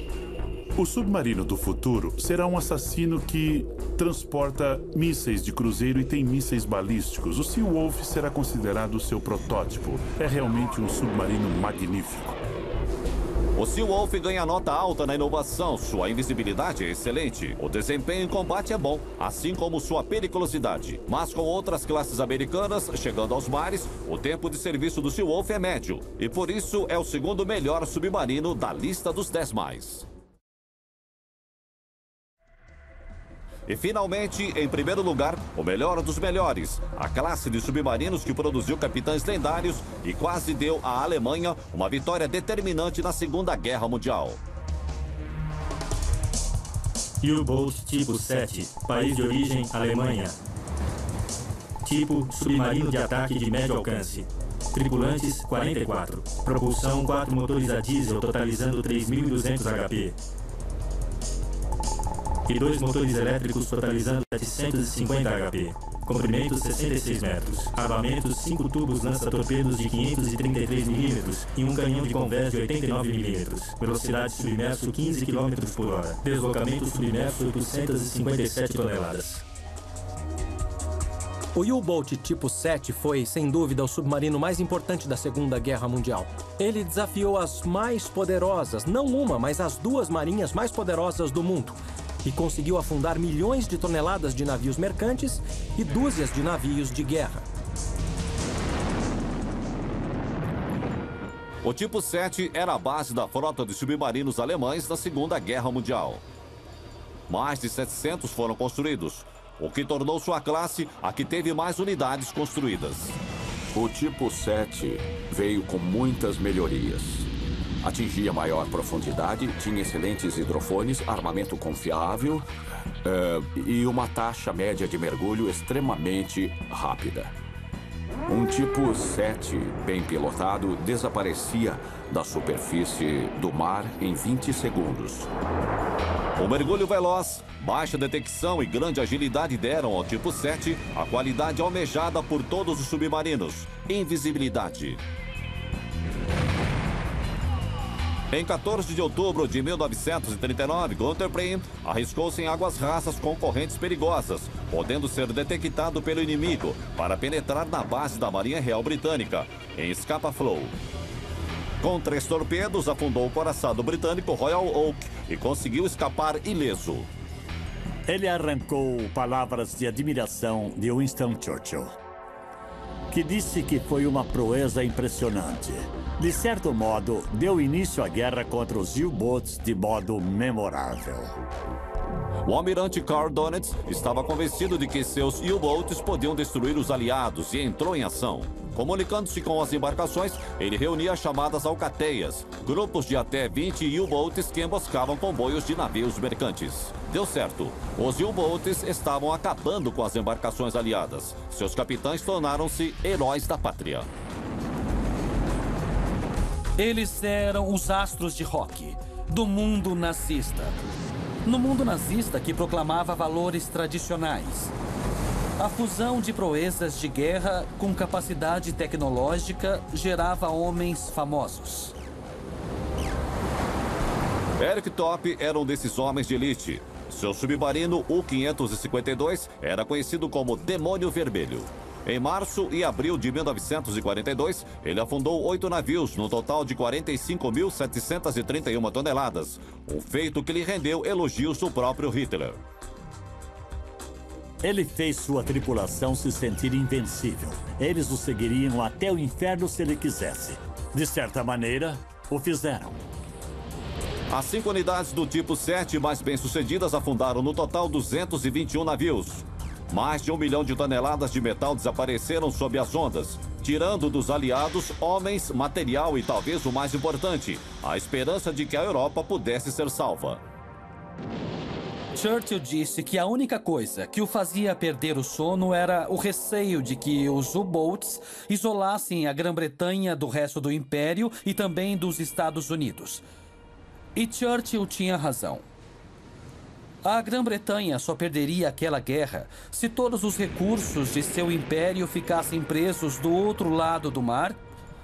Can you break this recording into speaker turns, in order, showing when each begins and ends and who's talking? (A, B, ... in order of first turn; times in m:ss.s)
0:00.8-0:12.4 A
0:13.6-0:30.0 B
0:33.7-0:44.4 B
0:47.2-0:50.4 C
0:51.8-1:00.2 C
1:02.4-1:19.4 C
1:21.5-1:37.4 D
1:41.6-1:46.2 B
1:47.3-1:53.2 B
1:53.7-1:57.3 E
1:57.8-2:02.5 E
2:03.0-2:07.3 E
2:08.2-2:15.3 E
2:16.4-2:25.0 B
2:28.3-2:40.7 B
2:41.8-2:47.1 B
2:48.0-2:51.9 F
2:53.1-3:01.4 F
3:02.4-3:24.1 B
3:26.8-3:30.8 G
3:31.4-3:34.7 G
3:35.6-3:41.9 G
3:44.6-4:02.6 B
4:04.6-4:13.0 F
4:14.3-4:30.4 B
4:32.1-4:43.2 G
4:44.1-4:45.6 G
4:47.0-4:54.6 G